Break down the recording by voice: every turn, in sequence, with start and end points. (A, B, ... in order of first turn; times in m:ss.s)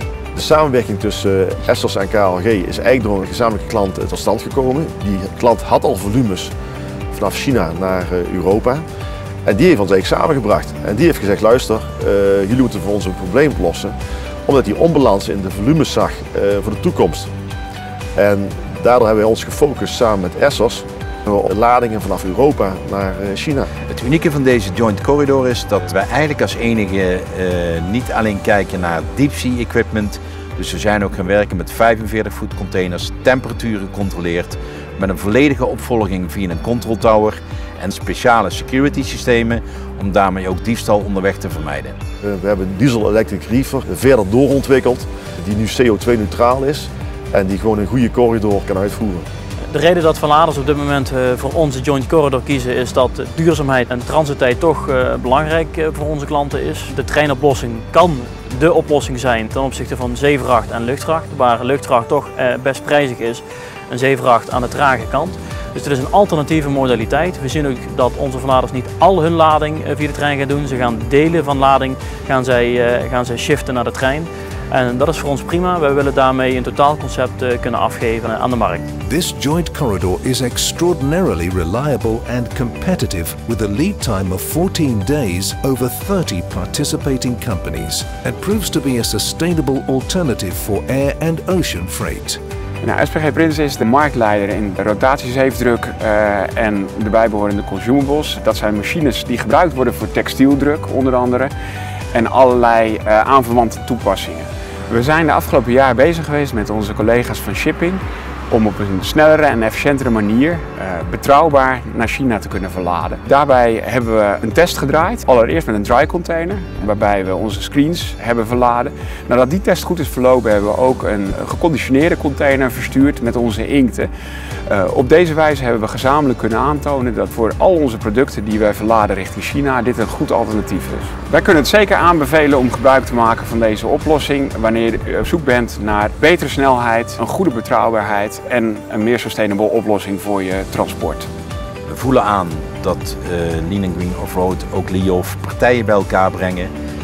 0:00.3-0:06.5 A
0:07.1-0:08.8 A
0:09.5-0:14.0 A
0:14.5-0:17.3 A
0:18.2-0:23.7 A
0:23.9-0:42.0 B
0:42.2-0:49.2 A
0:49.7-1:18.8 C
1:19.0-1:32.4 D
1:32.8-1:41.5 E
1:42.1-2:04.1 E
2:04.7-2:21.3 E
2:21.9-2:26.7 B